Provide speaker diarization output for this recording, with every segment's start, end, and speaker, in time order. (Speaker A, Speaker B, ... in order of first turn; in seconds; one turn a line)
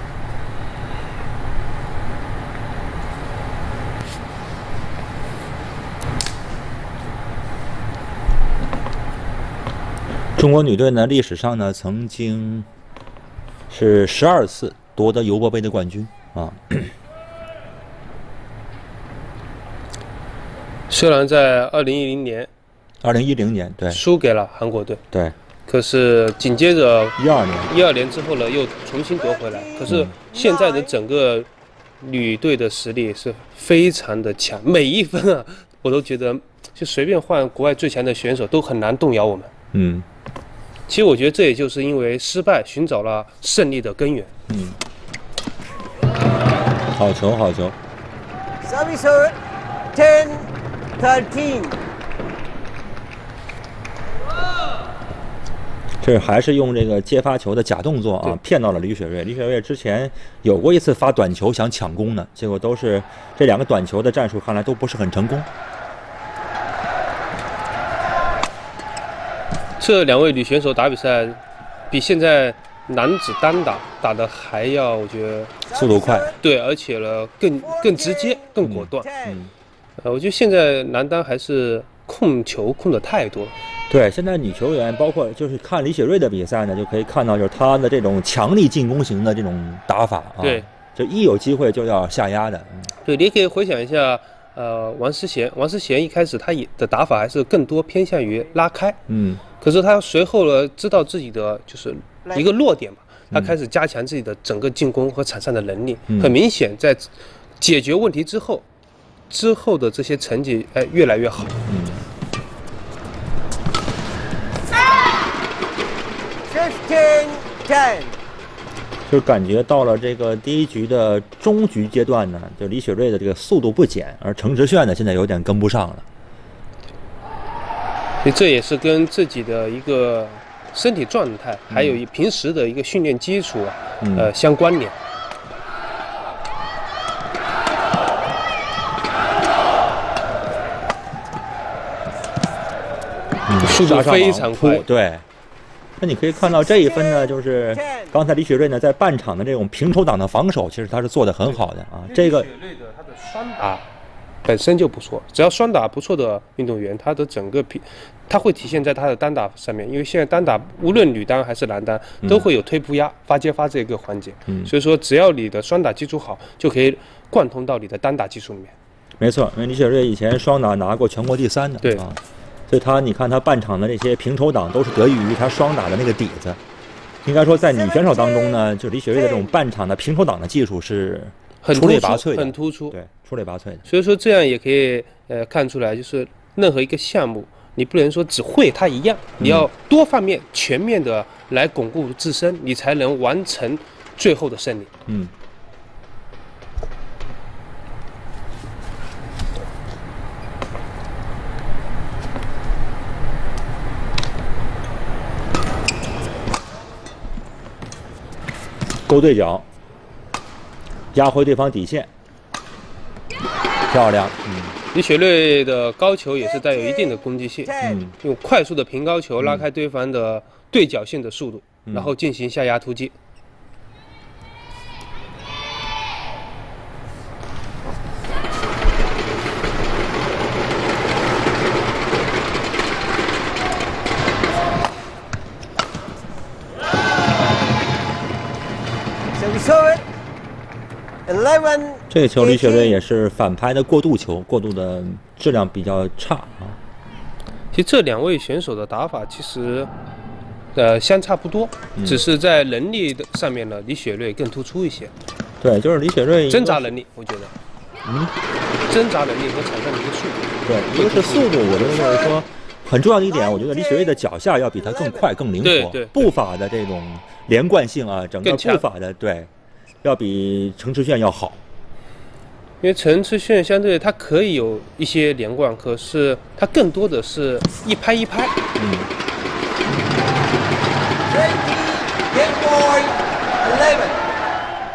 Speaker A: 10.3-12.7
Speaker A: 13.7-16.9
Speaker B: 20.9-22.5
Speaker A: 23.0-24.0
Speaker B: 23.9-25.0
Speaker B: 25.7-27.2
Speaker A: 27.2-27.7
Speaker B: 27.7-31.5
Speaker C: 29.2-30.9
Speaker A: 29.9-30.1
Speaker B: 32.0-39.5
Speaker A: 39.7-40.0
Speaker B: 40.9-44.3
Speaker A: 44.5-44.8
Speaker A: 46.9-47.8
Speaker C: 48.6-49.4
Speaker C: 49.9-51.8
Speaker A: 56.0-65.5
Speaker B: 69.8-75.6
Speaker C: 75.7-76.4
Speaker A: 75.7-76.3
Speaker B: 76.4-79.1
Speaker C: 77.6-78.5
Speaker A: 78.6-79.5
Speaker C: 79.0-79.4
Speaker B: 80.0-83.5
Speaker A: 83.9-92.9
Speaker B: 90.4-90.7
Speaker B: 93.0-99.0
Speaker A: 99.1-99.4
Speaker B: 99.6-108.7
Speaker A: 106.1-106.3
Speaker B: 109.3-111.6
Speaker A: 111.7-112.0
Speaker C: 116.5-118.1
Speaker A: 119.1-126.0
Speaker B: 128.2-134.9
Speaker A: 131.7-132.0
Speaker A: 134.0-134.3
Speaker A: 143.5-145.2
Speaker B: 143.6-144.8
Speaker A: 146.0-152.5
Speaker C: 146.7-148.1
Speaker B: 151.4-153.8
Speaker B: 154.4-168.7
Speaker A: 169.2-176.6
Speaker A: 177.2-183.8
Speaker C: 177.8-178.6
Speaker C: 179.1-179.5
Speaker B: 181.6-182.9
Speaker B: 183.8-194.9
Speaker A: 189.4-189.7
Speaker A: 195.1-195.3
Speaker A: 209.1-209.7
Speaker A: 211.1-212.1
Speaker A: 213.9-214.8
Speaker B: 214.9-223.1
Speaker C: 216.4-218.0
Speaker A: 217.8-218.1
Speaker A: 219.4-219.6
Speaker A: 221.9-222.1
Speaker C: 239.3-240.0
Speaker C: 241.3-243.0
Speaker A: 242.1-246.8
Speaker B: 247.7-249.9
Speaker B: 250.7-255.1
Speaker A: 251.9-252.2
Speaker A: 255.6-256.9
Speaker B: 256.5-257.5
Speaker A: 258.0-258.3
Speaker B: 258.9-262.2
Speaker A: 260.6-269.5
Speaker C: 263.3-264.2
Speaker C: 264.8-265.2
Speaker B: 265.6-266.3
Speaker B: 268.4-268.8
Speaker A: 270.0-271.6
Speaker B: 272.8-278.5
Speaker A: 278.8-279.1
Speaker C: 281.3-284.2